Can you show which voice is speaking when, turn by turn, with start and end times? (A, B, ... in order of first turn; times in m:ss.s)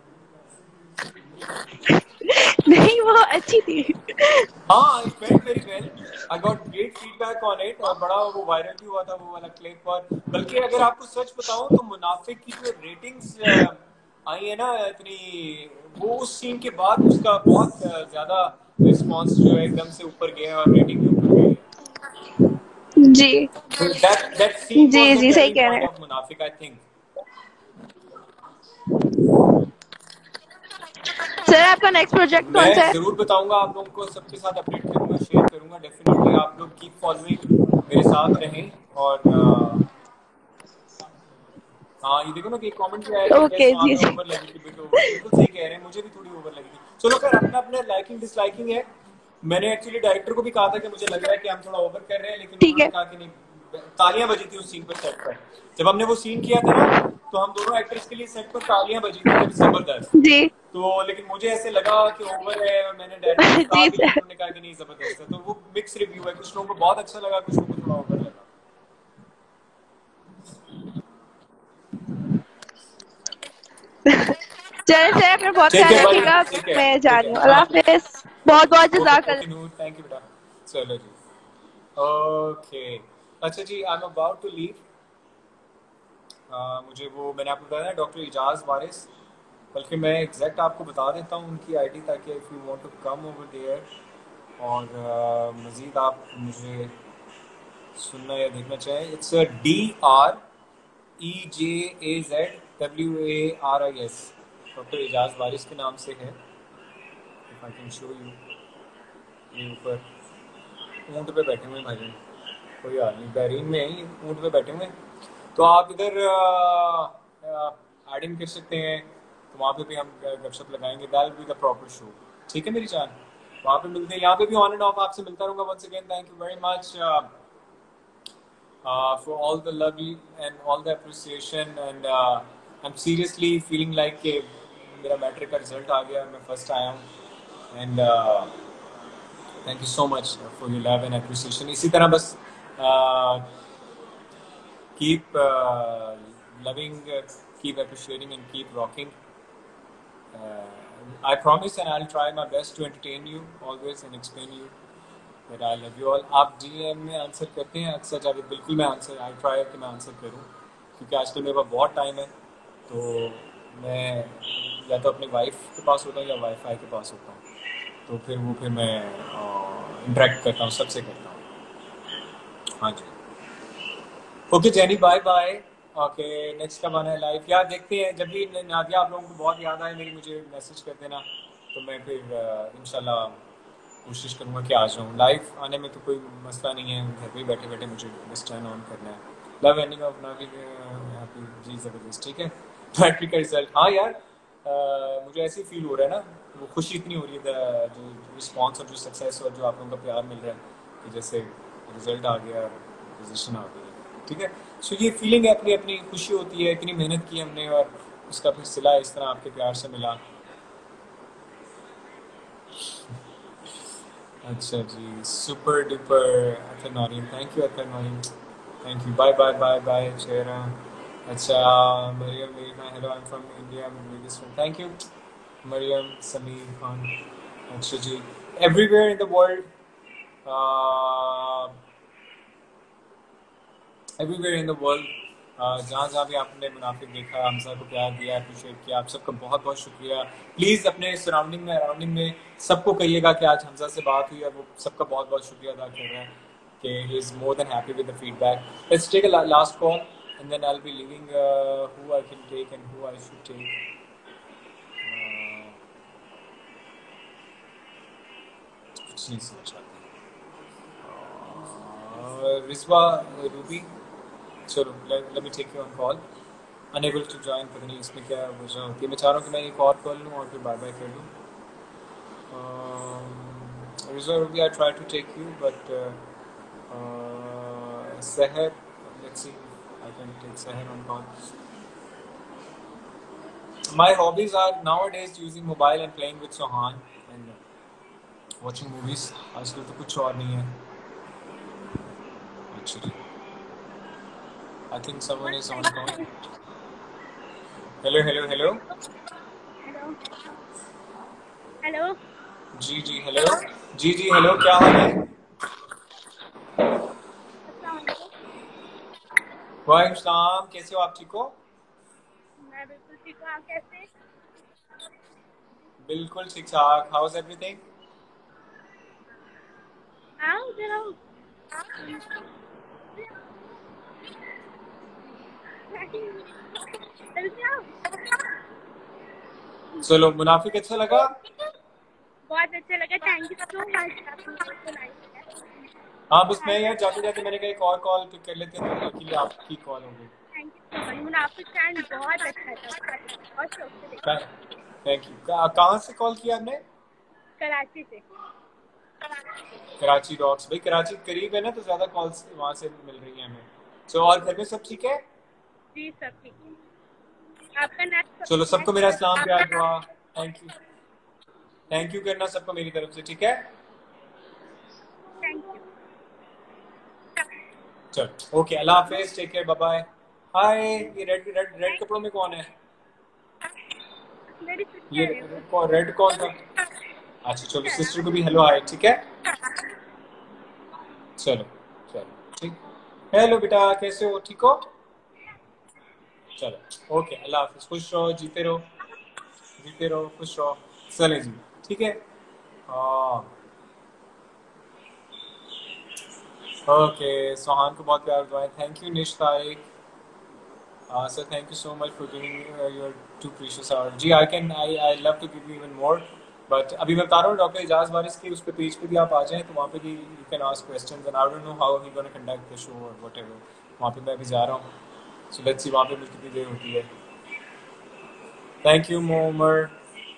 0:02.2-0:04.5 A
0:04.7-0:21.7 B
0:23.0-0:23.5 A
0:23.7-0:26.8 B
0:24.8-0:25.9 A
0:31.3-0:33.0 A
0:32.4-0:39.9 B
0:42.0-0:48.9 B
0:43.2-0:44.2 A
0:49.4-1:00.1 B
0:52.6-0:52.9 A
1:00.2-1:00.5 A
1:00.7-1:08.5 B
1:03.4-1:04.2 A
1:14.1-1:19.4 A
1:15.7-1:17.8 B
1:18.5-1:21.2 B
1:22.0-1:24.8 B
1:26.5-1:29.1 B
1:29.7-1:33.9 B
1:34.6-1:37.0 B
1:38.0-1:40.4 B
1:41.2-1:46.4 B
1:47.5-1:48.4 B
1:49.5-1:50.0 B
1:51.1-1:52.2 B
1:52.8-1:55.0 B
1:55.6-2:07.3 B
2:08.8-2:17.1 B
2:17.7-2:18.5 B
2:19.6-2:23.4 B
2:25.0-2:29.2 B
2:30.3-2:34.7 B
2:35.5-2:42.3 B
2:42.9-2:47.4 B
2:48.1-2:51.4 B
2:52.8-2:53.2 B
2:54.5-3:03.4 B
3:04.1-3:30.2 B
3:34.4-3:38.3 B
3:38.8-3:45.0 B
3:45.6-3:47.2 B
3:47.7-3:49.7 B
3:50.4-3:51.8 B
3:54.2-4:13.8 B
4:15.0-4:15.8 B
4:19.1-4:20.0 B
4:21.0-4:23.9 B
4:24.7-4:26.2 B
4:26.9-4:31.3 B
4:32.5-4:36.2 B
4:36.9-4:41.5 B
4:43.9-4:47.6 B
4:48.6-4:50.8 B
4:52.7-4:53.2 B
4:54.9-4:56.2 B
4:55.4-4:56.3 C
4:58.0-4:58.8 B
4:59.8-5:00.2 C
5:01.8-5:02.2 C
5:02.8-5:05.3 B
5:07.7-5:08.3 C
5:09.9-5:11.6 B
5:12.6-5:14.1 C
5:16.1-5:17.8 B
5:20.4-5:21.2 C
5:22.0-5:22.4 C
5:25.9-5:26.6 C
5:27.4-5:28.0 C
5:30.0-5:31.3 B
5:32.5-5:35.6 C
5:36.3-5:40.3 B
5:36.6-5:37.0 C
5:40.6-5:44.2 C
5:44.2-5:44.5 B
5:45.0-5:46.8 B
5:47.6-5:48.2 C
5:50.0-5:55.2 B
5:55.9-5:56.6 C
5:57.8-6:00.0 C
5:58.5-6:00.7 B
6:01.9-6:03.7 B
6:05.4-6:05.8 C
6:08.1-6:12.7 B
6:14.6-6:15.6 C
6:15.1-6:16.6 B
6:17.4-6:19.3 B
6:17.8-6:18.2 C
6:21.4-6:22.8 B
6:23.3-6:24.9 B
6:26.6-6:28.9 B
6:29.8-6:32.2 B
6:32.9-6:33.5 B
6:36.9-6:39.8 B
6:41.1-6:54.9 B
6:55.5-6:57.1 B
6:58.8-7:00.0 B